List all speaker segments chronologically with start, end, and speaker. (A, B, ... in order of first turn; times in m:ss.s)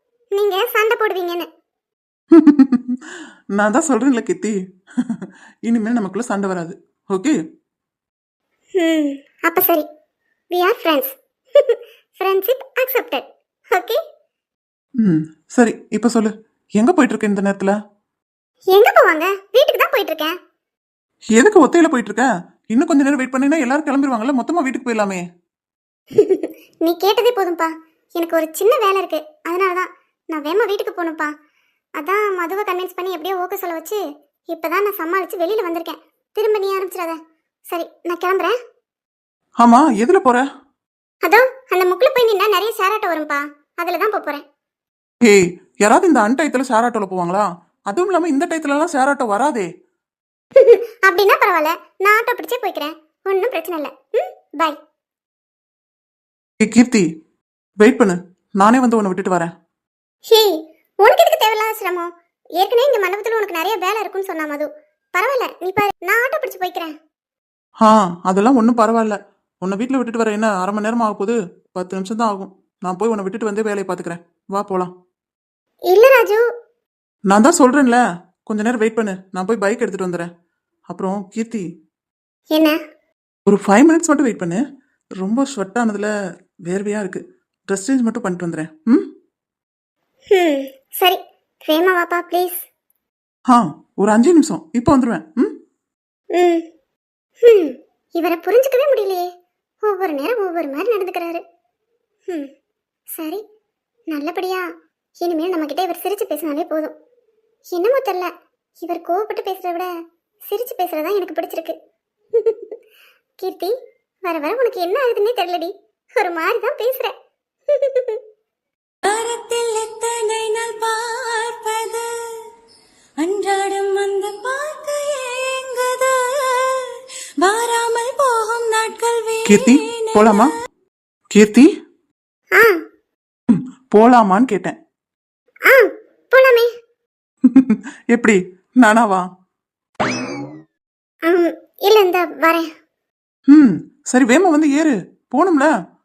0:00.3-0:01.5 A
0:02.3-0:07.4 B
0:08.8-0:09.9 A
0:10.5-0:14.0 A
0:15.0-0:17.8 B
0:18.7-0:20.4 A
0:21.4-0:25.2 B
0:26.2-0:31.3 A
0:32.0-0:37.2 A
0:37.7-0:38.5 A
0:39.6-0:40.4 B
0:41.2-0:44.4 A
0:45.2-0:49.7 B
0:50.6-0:54.8 A
0:56.6-0:57.0 B
0:57.8-0:59.5 B
1:00.3-1:06.9 A
1:07.8-1:14.9 B
1:15.9-1:16.4 A
1:17.3-1:20.3 B
1:20.9-1:21.6 B
1:23.5-1:24.6 B
1:25.2-1:26.1 B
1:26.7-1:29.1 B
1:30.3-1:32.6 A
1:33.5-1:35.5 B
1:36.3-1:36.6 A
1:37.4-1:39.3 A
1:39.8-1:41.4 A
1:43.2-1:43.4 A
1:44.1-1:44.7 A
1:45.2-1:46.9 A
1:47.7-1:49.9 A
1:50.4-1:51.8 A
1:52.4-1:52.7 A
1:53.4-1:53.7 A
1:54.2-1:57.1 A
1:57.7-1:58.2 A
1:59.0-2:02.1 C
2:03.2-2:06.9 C
2:07.4-2:10.5 C
2:09.5-2:10.5 B
2:11.3-2:11.7 B
2:13.5-2:14.8 B
2:15.7-2:16.7 A
2:17.5-2:19.2 B
2:21.3-2:22.7 A
2:23.5-2:25.7 B